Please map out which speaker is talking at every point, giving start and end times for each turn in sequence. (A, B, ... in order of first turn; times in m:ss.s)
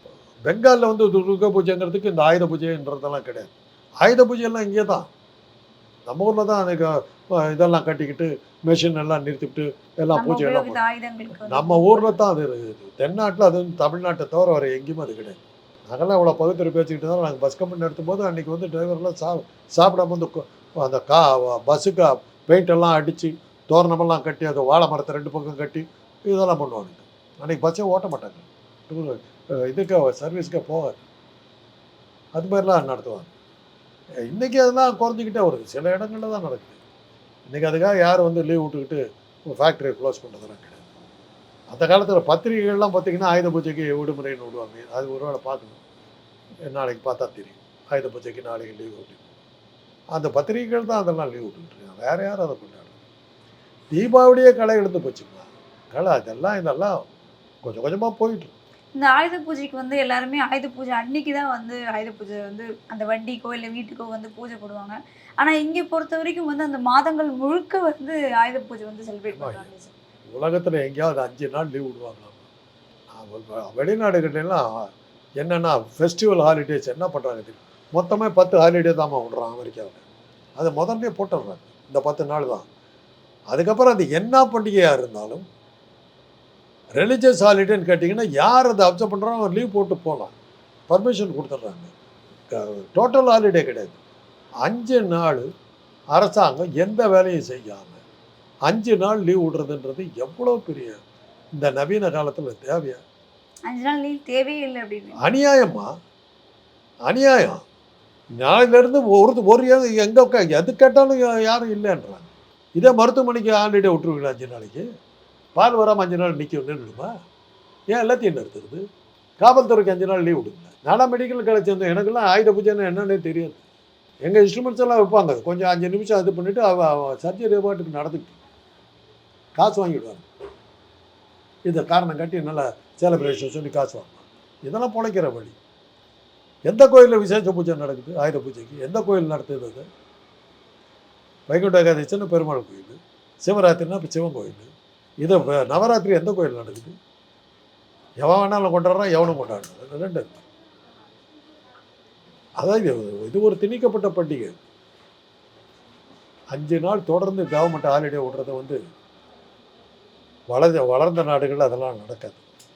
0:00.4-0:03.5 A
0:04.0-0:05.1 A
0:06.0-0:10.8 A
0:10.1-0:12.2 B
0:11.3-0:31.0 A
0:32.3-0:33.3 A
0:34.3-0:36.8 A
0:37.5-0:40.8 A
0:41.7-0:45.8 A
0:46.6-0:49.2 A
0:50.1-0:52.9 A
0:53.9-0:57.1 A
0:57.6-0:58.5 A
0:58.9-1:09.9 B
1:09.3-1:09.7 A
1:10.3-1:12.4 A
1:13.1-1:20.0 A
1:20.6-1:22.7 A
1:23.5-1:25.4 A
1:27.0-1:30.3 A
1:30.9-1:31.9 A
1:32.5-1:34.0 A
1:34.6-1:35.5 A
1:36.1-1:38.0 A
1:38.6-1:41.0 A
1:41.6-1:43.0 A
1:43.7-1:45.2 B
1:45.2-1:45.9 A
1:47.0-1:47.6 A
1:48.4-1:54.8 A
1:55.5-1:57.1 A
1:57.9-1:58.8 A
1:59.4-2:03.6 A
2:04.2-2:08.4 A
2:09.5-2:10.2 A
2:11.6-2:15.6 A
2:16.7-2:19.8 A
2:21.5-2:24.7 A
2:25.2-2:26.9 A
2:28.2-2:30.4 A
2:32.6-2:34.6 A
2:36.5-2:38.8 A
2:40.5-2:42.4 A